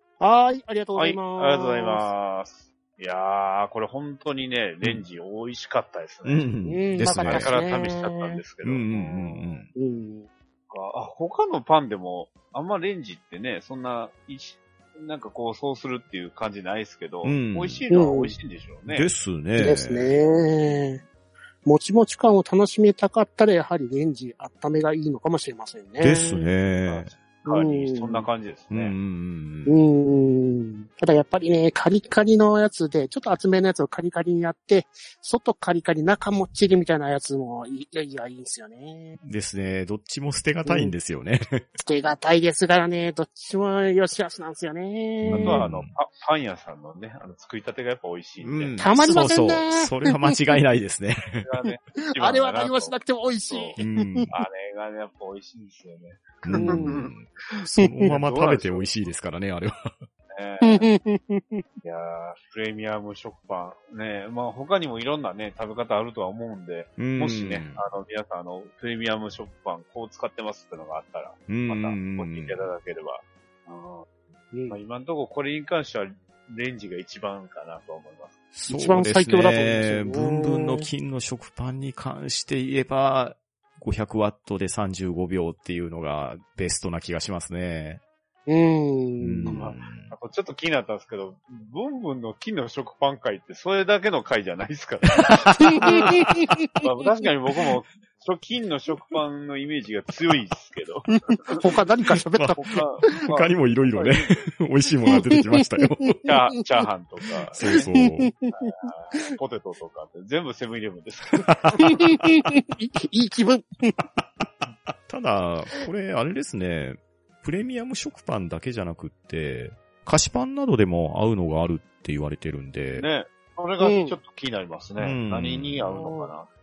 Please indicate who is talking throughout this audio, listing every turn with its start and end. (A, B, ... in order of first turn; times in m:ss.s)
0:00.2-0:02.1 A
0:01.0-0:06.5 B
0:06.2-0:07.5 C
0:06.6-0:08.4 A
0:07.2-0:09.6 B
0:08.6-0:09.7 C
0:09.8-0:10.3 A
0:10.7-0:19.1 B
0:17.2-0:17.8 C
0:17.9-0:18.3 A
0:18.9-0:20.1 C
0:19.6-0:21.0 A
0:21.6-0:26.5 A
0:26.0-0:27.1 C
0:26.8-0:28.9 B
0:27.4-0:28.2 A
0:28.7-0:29.8 C
0:29.6-0:39.2 A
0:39.2-0:41.6 C
0:40.6-0:40.9 A
0:41.8-0:45.6 A
0:45.2-0:45.9 C
0:45.3-0:48.8 B
0:48.4-0:51.5 C
0:48.8-0:50.4 A
0:51.4-0:53.0 B
0:52.0-0:54.3 A
0:53.5-0:53.8 B
0:53.8-0:54.3 C
0:54.3-0:57.1 B
0:56.4-0:59.9 C
0:56.5-0:57.1 A
0:57.8-0:58.1 A
0:58.0-0:59.0 B
1:00.3-1:00.9 B
1:00.6-1:01.6 A
1:01.8-1:14.1 B
1:07.0-1:07.8 C
1:11.5-1:12.6 C
1:14.5-1:14.8 A
1:14.7-1:18.4 B
1:18.5-1:28.0 C
1:18.7-1:20.9 A
1:28.5-1:29.6 A
1:29.2-1:30.1 C
1:29.4-1:35.9 B
1:35.5-1:36.3 C
1:35.7-1:36.7 A
1:36.8-1:41.6 B
1:41.6-1:43.1 A
1:42.2-1:46.2 C
1:42.6-1:44.4 B
1:45.1-1:46.3 A
1:46.2-1:47.8 B
1:47.6-1:48.3 C
1:47.6-1:48.7 A
1:48.5-1:51.9 B
1:51.4-1:52.4 C
1:51.8-1:54.0 A
1:54.9-2:03.0 C
2:03.0-2:06.5 B
2:03.8-2:04.2 A
2:05.0-2:05.8 C
2:05.8-2:06.3 A